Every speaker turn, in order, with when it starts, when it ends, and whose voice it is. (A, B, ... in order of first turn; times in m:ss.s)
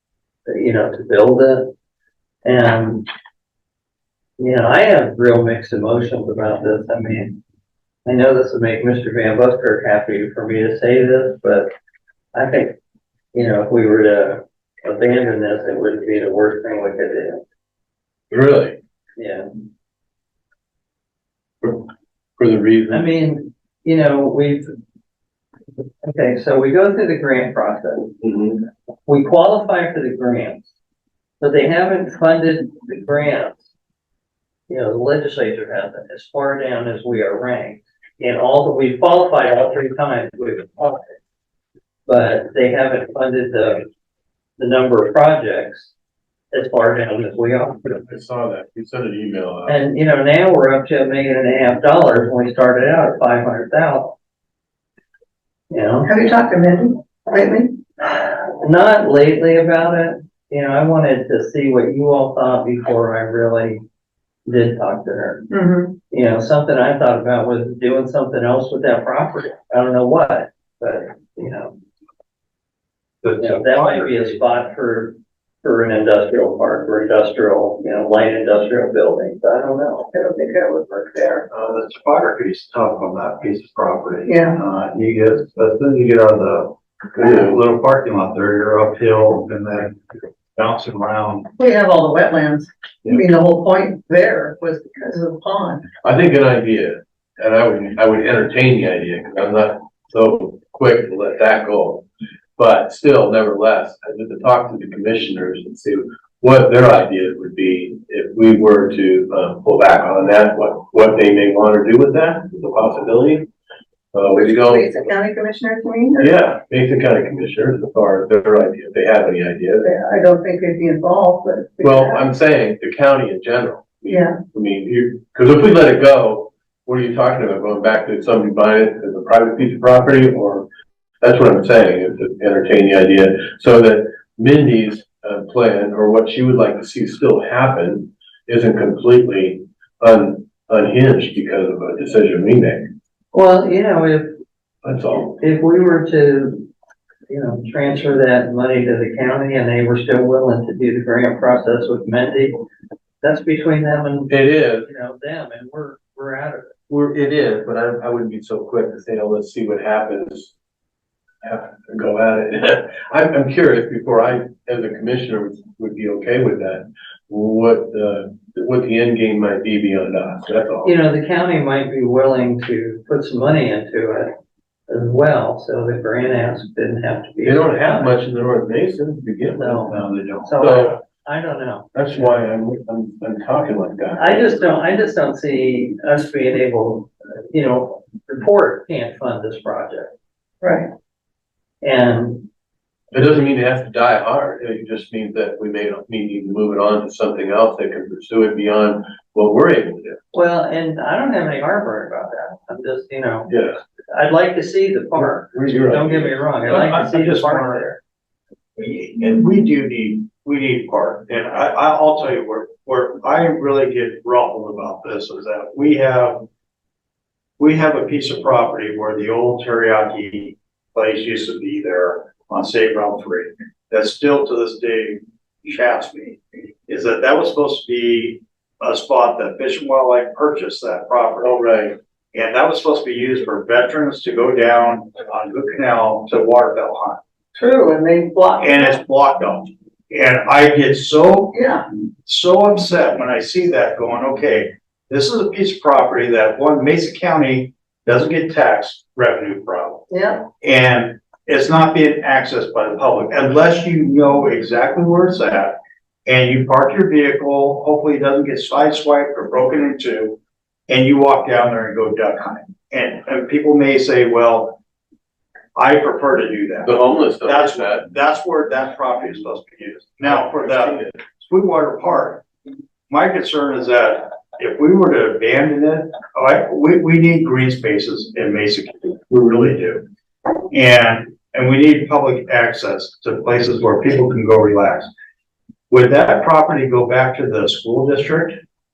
0:00.5-0:01.7 A
0:02.4-0:03.1 A
0:04.4-0:07.4 A
0:08.0-0:11.7 A
0:12.3-0:12.8 A
0:13.3-0:17.4 A
0:18.3-0:18.8 B
0:19.2-0:19.5 A
0:21.6-0:23.0 B
0:22.9-0:24.7 A
0:26.0-0:28.2 A
0:28.2-0:28.6 B
0:29.1-0:30.7 A
0:31.4-0:33.7 A
0:34.7-0:41.1 A
0:42.1-0:43.9 A
0:44.6-0:45.9 A
0:46.5-0:48.1 A
0:48.0-0:49.8 B
0:49.7-0:54.2 A
0:55.7-0:56.1 A
0:56.0-0:57.8 C
0:58.0-1:03.8 A
1:04.5-1:05.5 A
1:05.5-1:06.0 C
1:06.1-1:11.8 A
1:13.2-1:14.4 D
1:13.4-1:20.1 A
1:20.1-1:21.4 C
1:21.5-1:31.5 D
1:24.2-1:24.6 C
1:27.2-1:27.6 B
1:31.6-1:35.8 C
1:36.0-1:53.5 B
1:54.1-1:54.9 B
1:54.4-1:56.3 C
1:56.2-1:59.9 B
1:59.8-2:02.2 C
2:01.8-2:10.7 B
2:04.1-2:04.4 C
2:11.2-2:22.9 B
2:23.3-2:24.4 A
2:24.8-2:25.4 B
2:25.4-2:26.7 A
2:27.3-2:32.6 A
2:33.2-2:36.8 A
2:34.3-2:34.9 B
2:36.9-2:40.5 B
2:41.4-2:50.9 B
2:50.8-2:54.3 A
2:54.9-2:58.2 A
2:57.4-2:59.9 B
2:59.6-3:01.9 A
2:59.9-3:00.5 D
3:00.6-3:01.0 B
3:02.0-3:04.6 B
3:04.2-3:10.1 A
3:10.6-3:10.9 C
3:11.8-3:12.5 A
3:13.1-3:20.2 B
3:20.3-3:28.0 A
3:23.5-3:23.8 B
3:25.2-3:26.4 B
3:26.7-3:27.8 D
3:28.8-3:36.5 D
3:37.6-3:51.5 D
3:51.4-3:52.0 B
3:52.3-3:57.2 D
3:57.6-3:59.0 C
3:58.6-4:01.6 D
4:01.5-4:01.8 C
4:02.2-4:10.0 D
4:10.1-4:10.5 C
4:10.6-4:20.4 D
4:20.9-4:24.8 D
4:25.8-4:32.4 D
4:26.8-4:28.1 B
4:30.2-4:31.2 B
4:33.1-4:40.0 D
4:40.7-4:45.1 D
4:45.9-4:48.6 D